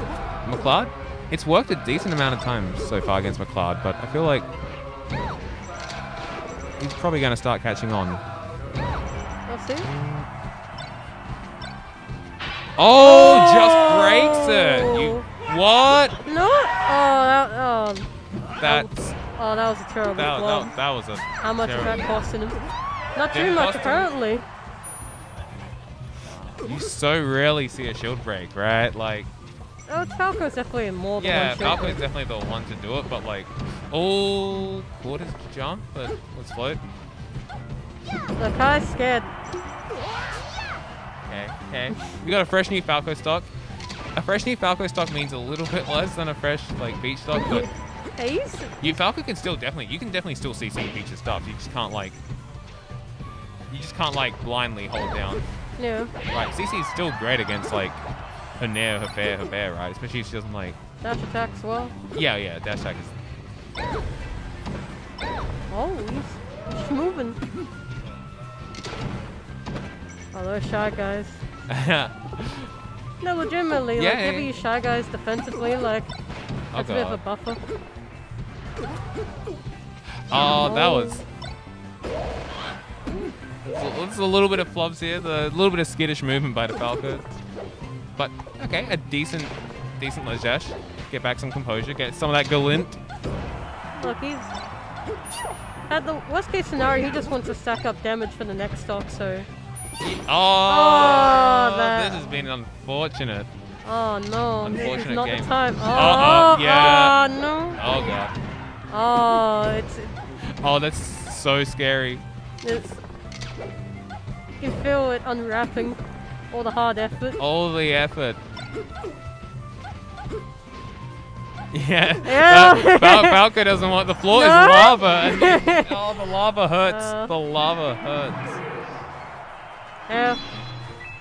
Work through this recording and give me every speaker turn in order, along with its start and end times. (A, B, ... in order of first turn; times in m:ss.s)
0:00.4-0:04.4 A
0:06.8-0:08.2 A
0:09.5-0:09.9 B
0:09.8-0:10.3 A
0:12.8-0:16.2 A
0:13.0-0:15.2 B
0:16.2-0:18.1 B
0:18.6-0:19.2 A
0:18.6-0:20.7 B
0:20.1-0:22.0 A
0:21.4-0:22.6 B
0:23.1-0:24.4 B
0:23.3-0:24.1 A
0:26.2-0:29.3 A
0:29.9-0:32.0 B
0:31.2-0:36.8 A
0:38.4-0:39.3 B
0:41.3-0:43.5 A
0:44.2-0:47.7 A
0:47.4-0:49.0 B
0:48.8-0:52.2 A
0:53.7-0:55.4 A
0:55.8-0:56.1 B
0:56.3-0:58.0 A
0:58.6-1:00.8 A
1:01.0-1:01.9 B
1:02.1-1:03.1 A
1:05.7-1:07.4 B
1:10.3-1:11.4 B
1:11.7-1:12.7 A
1:13.2-1:16.1 B
1:14.0-1:14.6 A
1:16.7-1:17.2 A
1:16.7-1:17.6 B
1:20.3-1:21.2 A
1:20.5-1:21.2 B
1:23.6-1:27.4 A
1:28.2-1:33.0 A
1:34.0-1:34.5 B
1:35.9-1:39.5 B
1:40.0-1:43.5 A
1:40.6-1:42.2 B
1:43.8-1:47.8 B
1:44.6-1:47.2 A
1:47.8-1:48.3 A
1:48.9-1:50.4 B
1:50.4-1:52.2 A
1:52.6-1:53.0 B
1:54.6-1:56.0 B
1:56.5-1:57.4 B
1:57.4-1:58.4 A
2:01.7-2:08.6 A
2:02.2-2:03.4 B
2:04.3-2:06.0 B
2:06.8-2:07.3 B
2:10.1-2:10.4 B